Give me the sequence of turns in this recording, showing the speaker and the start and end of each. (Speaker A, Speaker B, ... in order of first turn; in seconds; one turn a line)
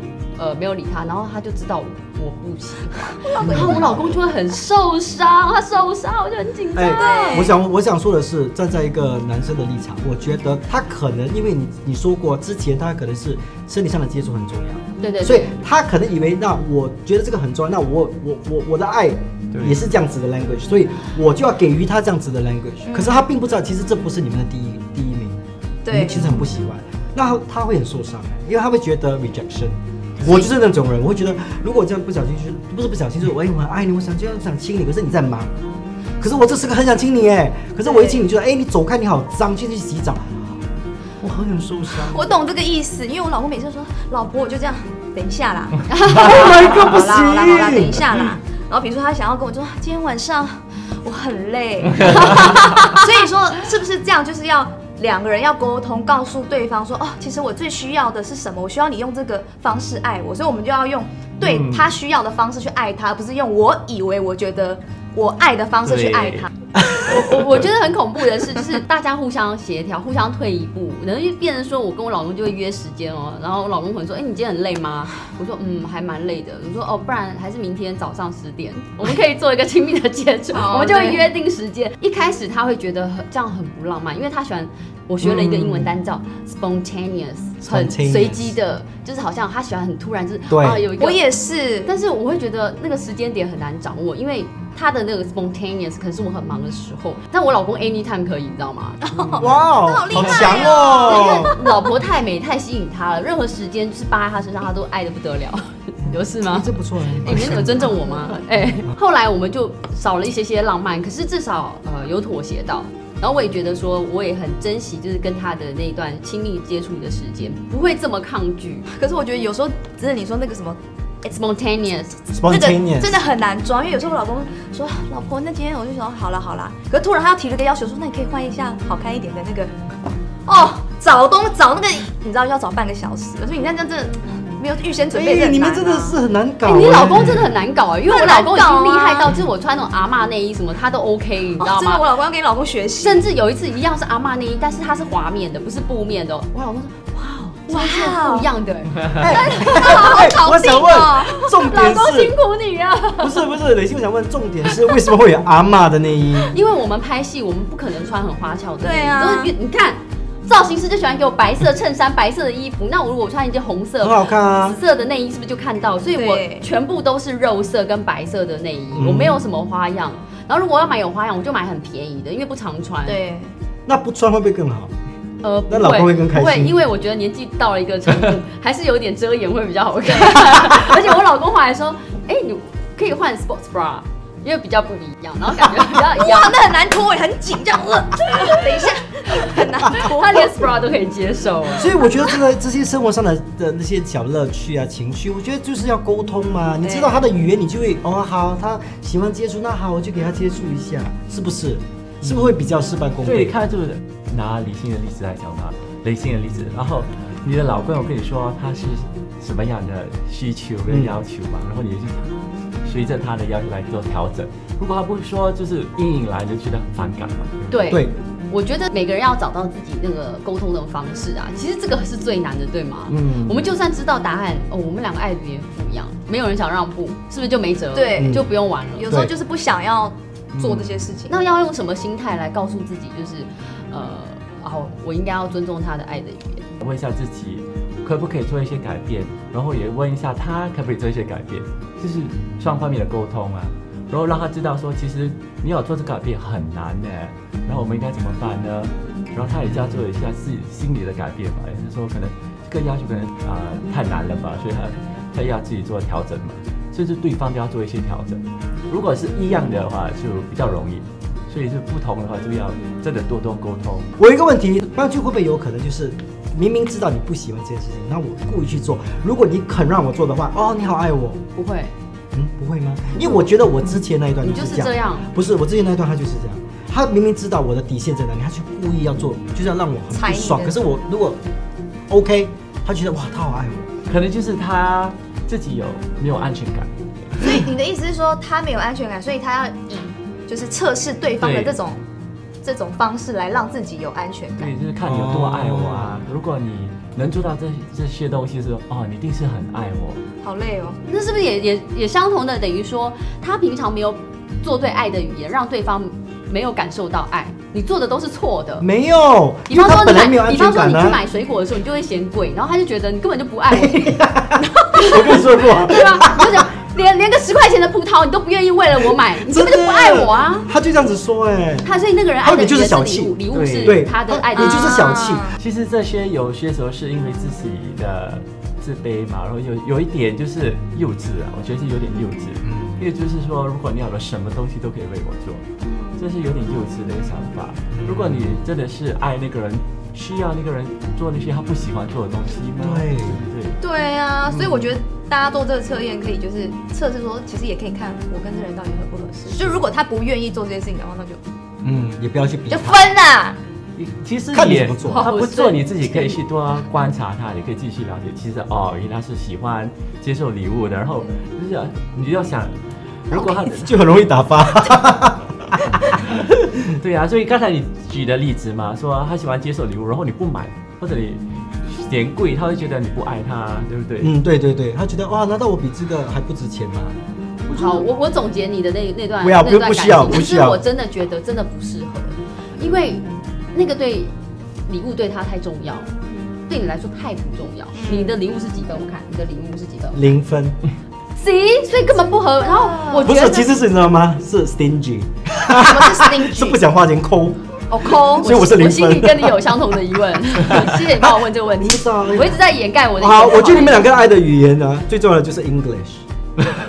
Speaker A: 0.4-7.5
Speaker B: 3.2-3.7
Speaker C: 3.4-3.9
Speaker D: 3.5-4.2
Speaker D: 6.8-35.6
Speaker B: 7.0-7.6
Speaker A: 15.0-15.6
Speaker B: 22.8-23.2
Speaker B: 25.9-26.2
Speaker D: 36.2-40.4
Speaker B: 37.9-38.2
Speaker D: 41.2-42.3
Speaker B: 42.0-66.5
Speaker A: 45.9-46.7
Speaker D: 46.0-48.0
Speaker A: 52.2-52.8
Speaker C: 61.4-62.0
Speaker C: 65.8-66.5
Speaker D: 66.8-67.2
Speaker A: 67.0-91.3
Speaker C: 67.3-67.6
Speaker B: 80.5-81.3
Speaker D: 85.2-85.9
Speaker D: 87.6-88.5
Speaker D: 90.5-90.9
Speaker B: 90.9-91.9
Speaker A: 91.8-99.0
Speaker B: 99.1-101.7
Speaker D: 99.3-101.5
Speaker A: 100.4-118.9
Speaker D: 106.4-108.0
Speaker B: 108.0-108.3
Speaker B: 118.9-120.8
Speaker A: 121.2-122.2
Speaker D: 122.3-123.2
Speaker B: 122.5-129.7
Speaker B: 130.5-136.2
Speaker D: 135.1-137.6
Speaker A: 136.6-142.0
Speaker B: 138.1-139.3
Speaker B: 141.6-143.3
Speaker A: 143.0-150.3
Speaker B: 147.7-148.5
Speaker D: 149.2-152.3
Speaker B: 149.6-151.4
Speaker A: 151.4-153.4
Speaker D: 153.2-156.5
Speaker A: 156.5-173.2
Speaker B: 158.8-159.5
Speaker D: 164.0-164.8
Speaker B: 166.1-166.7
Speaker D: 168.9-169.4
Speaker B: 173.1-173.5
Speaker D: 173.9-174.9
Speaker A: 175.4-186.6
Speaker D: 175.7-176.8
Speaker B: 180.1-180.7
Speaker B: 185.9-190.6
Speaker A: 189.9-192.0
Speaker D: 191.8-203.6
Speaker B: 196.8-197.2
Speaker C: 203.2-217.8
Speaker D: 210.9-211.1
Speaker A: 217.7-229.2
Speaker D: 217.9-218.2
Speaker C: 223.1-223.6
Speaker B: 227.9-228.4
Speaker D: 228.2-228.5
Speaker B: 229.0-231.4
Speaker C: 230.6-230.9
Speaker A: 231.3-236.7
Speaker C: 236.8-264.1
Speaker D: 249.4-250.0
Speaker D: 264.2-271.4
Speaker A: 271.6-271.9
Speaker D: 272.3-281.4
Speaker A: 274.4-275.3
Speaker B: 280.1-280.8
Speaker D: 282.1-283.9
Speaker C: 284.1-287.6
Speaker B: 287.4-292.0
Speaker C: 291.4-291.8
Speaker B: 292.6-294.7
Speaker C: 294.6-300.2
Speaker D: 295.0-296.2
Speaker B: 300.4-301.0
Speaker A: 301.1-308.9
Speaker D: 308.8-311.2
Speaker A: 309.7-320.7
Speaker D: 313.7-316.7
Speaker D: 319.3-321.9
Speaker A: 321.8-325.0
Speaker D: 322.4-325.6
Speaker C: 323.5-324.0
Speaker B: 324.5-325.6
Speaker C: 325.6-335.6
Speaker D: 332.6-333.1
Speaker B: 335.8-336.3
Speaker C: 336.2-343.8
Speaker D: 337.9-338.6
Speaker D: 342.8-343.5
Speaker B: 343.8-351.4
Speaker D: 349.5-349.8
Speaker D: 351.8-353.0
Speaker B: 352.7-353.6
Speaker C: 354.0-364.1
Speaker D: 354.5-355.3
Speaker A: 355.1-356.4
Speaker D: 363.7-366.6
Speaker C: 366.1-374.3
Speaker D: 374.2-377.2
Speaker A: 377.7-384.3
Speaker B: 377.8-378.1
Speaker D: 379.4-380.8
Speaker A: 384.9-386.1
Speaker A: 386.7-390.2
Speaker B: 387.9-388.4
Speaker D: 390.1-390.8
Speaker A: 391.3-393.7
Speaker B: 392.6-393.3
Speaker D: 393.2-399.6
Speaker B: 395.6-396.8
Speaker A: 397.9-404.1
Speaker B: 398.1-398.4
Speaker D: 400.9-402.6
Speaker D: 403.2-406.2